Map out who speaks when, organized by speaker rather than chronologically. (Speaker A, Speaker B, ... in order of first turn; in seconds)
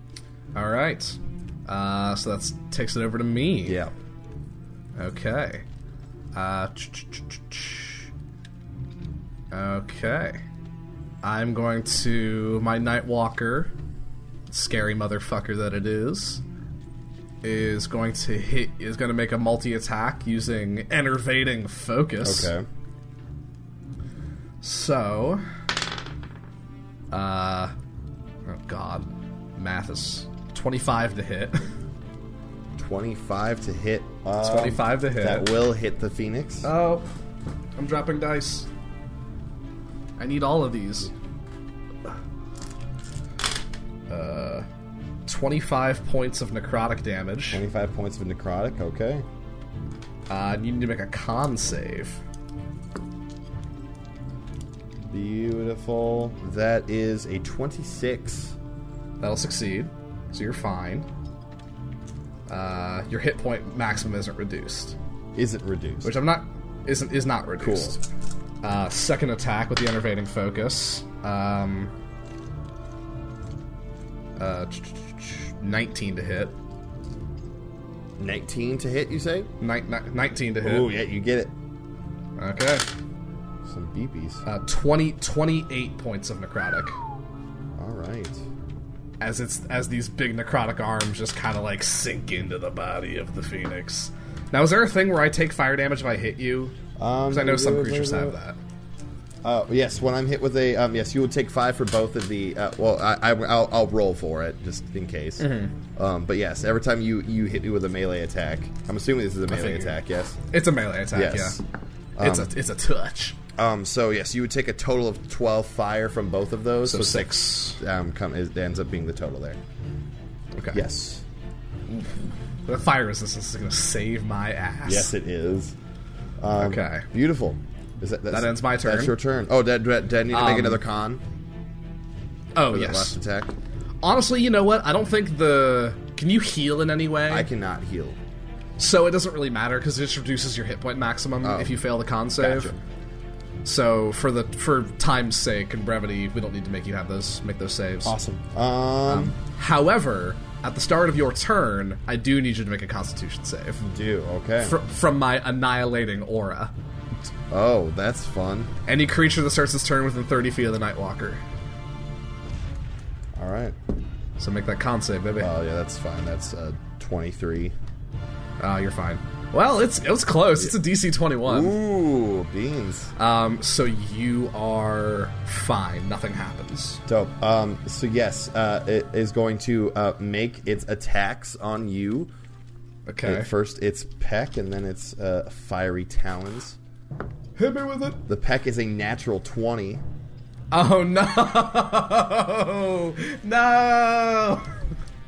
Speaker A: 0.6-3.8, 5.0-5.7, 6.3-8.0, 9.5-10.4, 11.2-13.7, 14.5-16.4, 17.4-22.5, 24.6-25.4, 27.1-27.7, 28.5-31.7, 34.4-35.5, 36.6-37.1, 37.8-38.7, 40.2-41.1, 44.1-44.7, 45.3-47.6, 50.3-52.2, 59.2-61.1, 62.5-65.0, 66.0-68.0, 68.6-71.9, 74.4-76.5, 79.6-80.9, 82.4-82.9, 84.5-87.0, 89.2-96.8, 97.3-98.6, 105.4-105.8, 109.5-110.0, 110.5-111.6, 112.2-113.4, 116.8-117.8, 120.6-120.8, 121.9-125.1, 126.6-127.1, 128.3-129.2, 130.3-130.8, 132.6-133.2, 134.0-137.5, 138.8-142.7, 143.7-148.2, 149.1-153.8, 154.6-156.7, 158.9-161.4, 164.4-165.5, 168.6-171.8, 173.2-177.0, 183.1-183.5, 187.6-188.2, 190.7-194.8
Speaker B: 3.7-3.9, 22.2-22.7, 32.8-36.7, 47.5-49.2, 55.1-58.6, 65.3-66.1, 67.6-68.0, 78.2-79.5, 80.6-81.5, 83.7-84.4, 87.8-88.4, 97.0-98.4, 99.4-110.4, 111.1-111.6, 112.2-112.5, 113.6-119.6, 120.7-121.2, 124.9-125.8, 126.4-131.2, 132.7-133.6, 137.3-138.2, 141.4-141.8, 142.4-142.8, 148.1-149.3, 153.8-154.8, 157.5-158.7, 163.4-163.8, 165.4-167.8, 171.4-173.1, 177.1-182.3, 183.2-186.8, 188.3-190.0